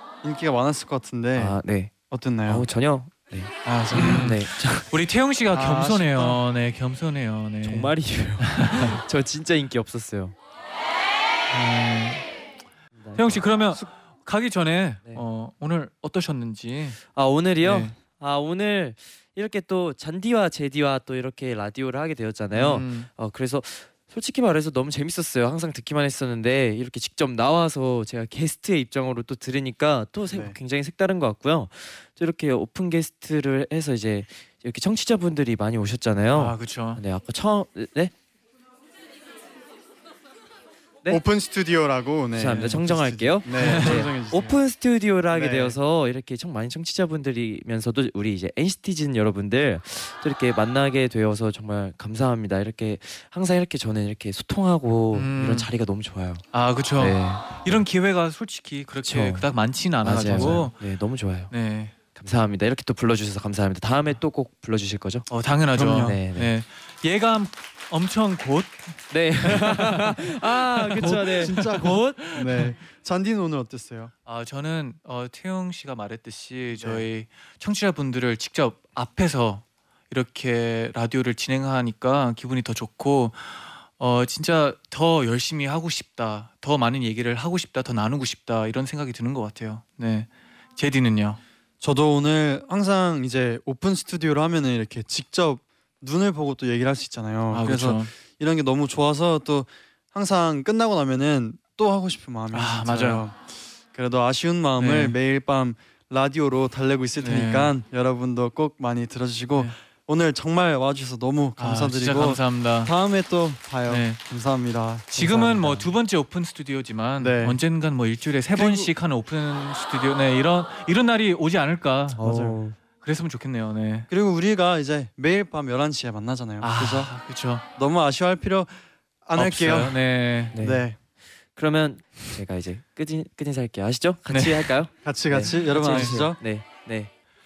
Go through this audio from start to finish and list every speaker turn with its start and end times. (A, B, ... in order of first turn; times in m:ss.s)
0:00.2-0:02.7 A
0:01.4-0:01.9 B
0:02.4-0:04.9 B
0:03.6-0:04.4 A
0:03.9-0:09.0 C
0:05.5-0:06.4 A
0:07.6-0:10.4 B
0:11.5-0:12.2 C
0:13.0-0:13.8 B
0:13.2-0:17.0 C
0:17.1-0:38.1 B
0:17.6-0:17.9 C
0:22.5-0:23.1 C
0:30.3-0:30.6 A
0:36.3-0:37.0 C
0:41.1-0:44.6 A
0:42.3-0:56.4 B
0:42.5-0:42.8 C
0:43.6-0:44.0 C
0:45.3-0:45.8 A
0:55.1-0:55.7 C
0:56.5-1:00.7 C
0:57.0-0:57.6 B
0:59.0-0:59.4 B
1:00.0-1:01.5 B
1:01.5-1:01.9 C
1:02.1-1:05.3 B
1:05.3-1:12.7 C
1:05.7-1:06.2 A
1:06.0-1:06.5 B
1:09.1-1:12.2 B
1:11.0-1:14.1 A
1:14.2-1:31.4 C
1:16.7-1:17.0 A
1:31.8-1:55.4 A
1:37.5-1:38.1 C
1:42.5-1:43.2 C
1:44.8-1:45.2 C
1:47.2-1:47.7 C
1:51.6-1:52.9 C
1:53.9-1:54.2 C
1:55.2-2:02.2 C
1:55.2-1:55.9 B
1:57.2-1:57.6 A
1:58.5-1:58.9 A
2:02.2-2:02.8 B
2:02.2-2:02.6 A
2:03.0-2:04.1 C
2:04.1-2:07.1 A
2:06.6-2:07.6 C
2:07.8-2:10.0 A
2:09.4-2:10.5 C
2:10.5-2:10.9 B
2:10.5-2:11.0 A
2:11.6-2:17.1 B
2:14.3-2:14.7 C
2:15.0-2:16.4 A
2:15.5-2:16.2 C